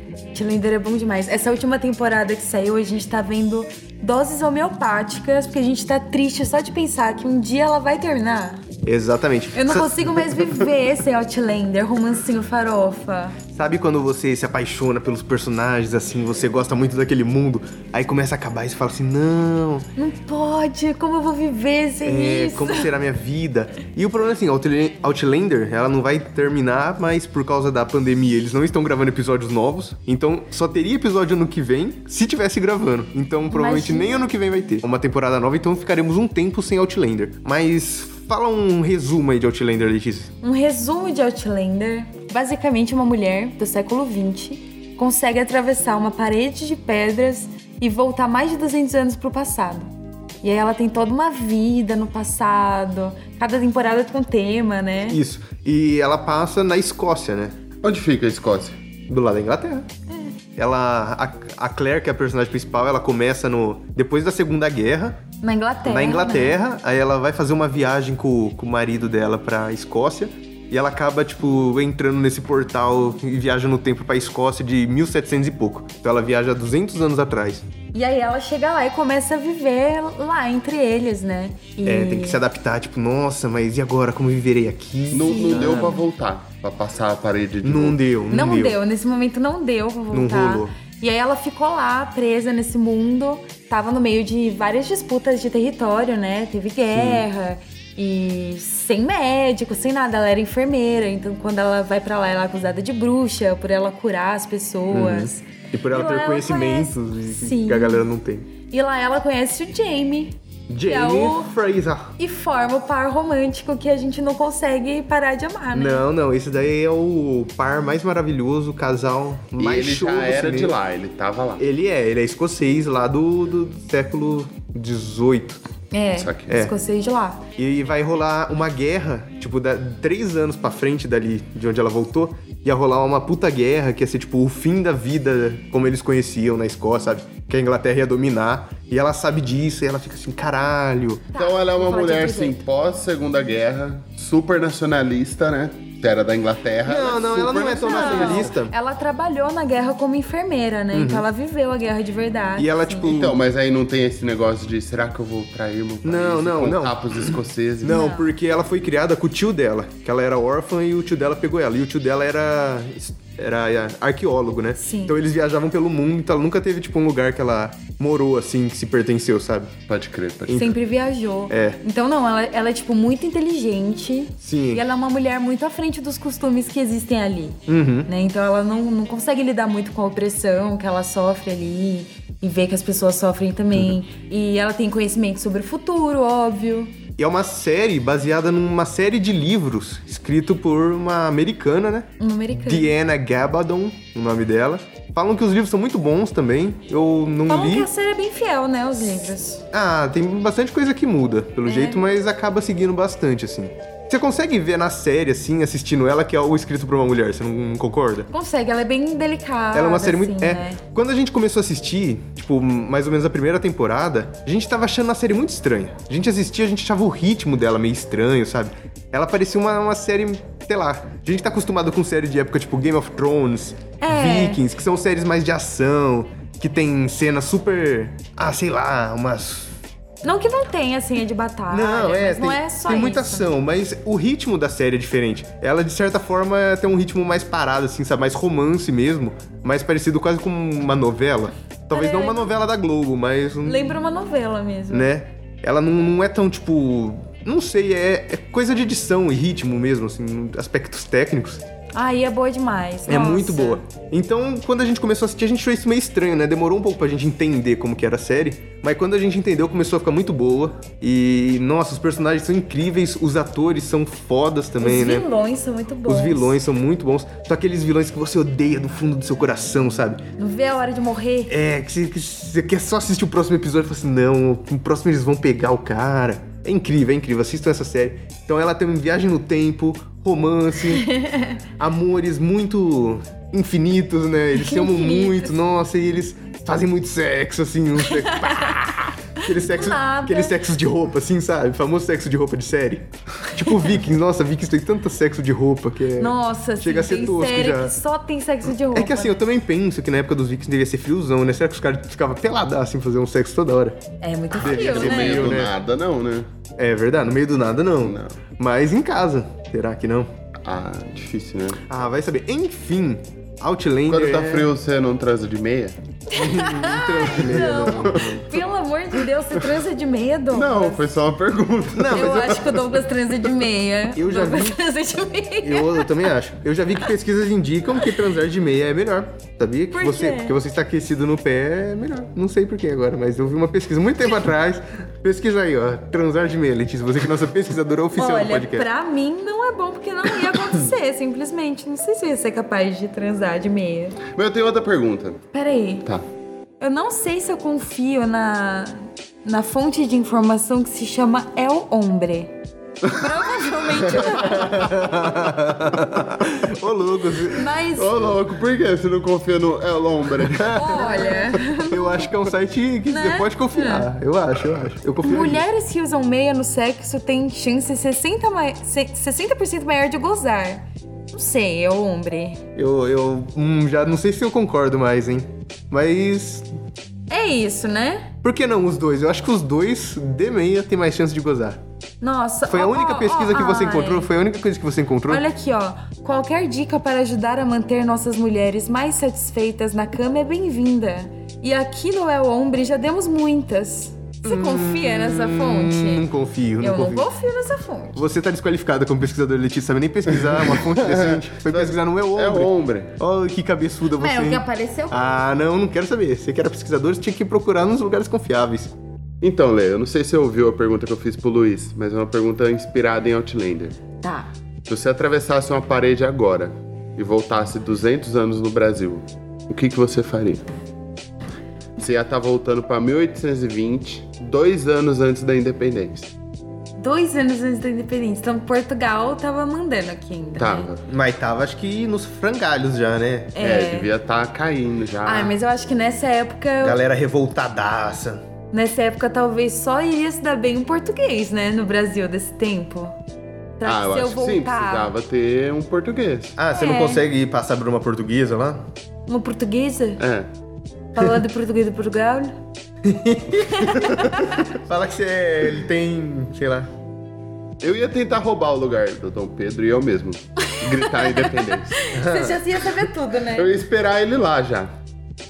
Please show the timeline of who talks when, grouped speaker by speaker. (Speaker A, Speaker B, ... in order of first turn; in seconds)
Speaker A: 0.3-8.6, 9.5-13.4, 20.0-22.9, 33.5-34.2, 40.4-55.2, 65.4-66.6, 77.9-82.4, 85.2-86.0, 88.3-108.1, 108.7-111.5, 112.2-116.1, 125.9-127.5, 141.3-142.6, 147.8-153.1, 157.9-158.3, 164.8-165.2, 170.5-187.0, 192.2-192.9, 197.5-199.7, 201.7-202.0, 208.3-210.8, 224.0-224.6, 230.2-233.5, 241.9-242.5, 243.6-245.1, 251.9-253.8, 264.8-266.6, 270.4-271.6, 280.9-281.6, 284.6-285.5, 288.0-290.6, 296.2-299.4, 304.2-305.6, 316.3-321.1, 322.1-326.3, 329.9-330.6, 338.2-344.2, 345.5-346.1, 346.8-355.0, 357.5-358.4, 360.7-362.3, 363.1-364.1, 365.2-372.6, 377.3-378.3, 382.2-384.3, 385.3-396.3, 396.8-398.2, 404.2-405.4, 414.2-414.5, 427.0-430.9, 433.6-434.1, 435.2-437.0, 438.7-443.2, 443.8-445.1, 446.7-447.2, 449.3-450.2, 451.1-452.5, 453.5-454.7, 460.7-463.7
Speaker B: 8.8-10.6, 13.5-19.9, 22.1-40.3, 55.1-57.6, 59.1-59.9, 60.6-65.2, 65.8-77.7, 81.8-86.0, 87.6-88.8, 90.1-90.7, 96.9-97.2, 104.9-108.5, 110.7-112.2, 115.7-120.8, 121.6-125.6, 126.5-126.8, 127.6-141.3, 146.8-148.7, 150.9-151.3, 152.6-153.4, 156.0-169.7, 170.5-170.8, 171.5-171.8, 174.4-174.8, 177.7-178.1, 187.2-197.9, 199.7-208.3, 209.7-229.8, 231.7-244.0, 244.9-251.6, 253.1-265.3, 266.1-270.2, 271.5-281.1, 281.8-297.9, 298.9-304.0, 304.5-305.8, 306.8-310.3, 311.9-314.7, 316.3-318.6, 321.9-322.7, 324.1-324.8, 325.6-338.9, 354.2-357.7, 360.4-365.6, 372.8-376.7, 378.4-381.8, 382.7-385.4, 394.4-397.3, 398.1-408.9, 431.1-433.6, 436.8-438.4, 446.6-448.9, 453.0-456.9, 462.1-462.6
Speaker C: 57.8-58.8, 85.1-88.0, 119.6-121.7, 126.2-126.6, 141.3-148.5, 153.0-158.1, 169.9-170.7, 304.6-306.5, 308.0-308.4, 310.6-311.9, 314.1-316.0, 317.4-318.3, 320.5-322.8, 344.3-345.4, 357.9-361.4, 400.6-403.1, 409.4-413.9, 414.9-420.6, 422.0-426.3, 430.6-431.0, 433.6-435.5, 443.8-446.6, 450.2-450.5, 457.8-462.0, 463.5-464.9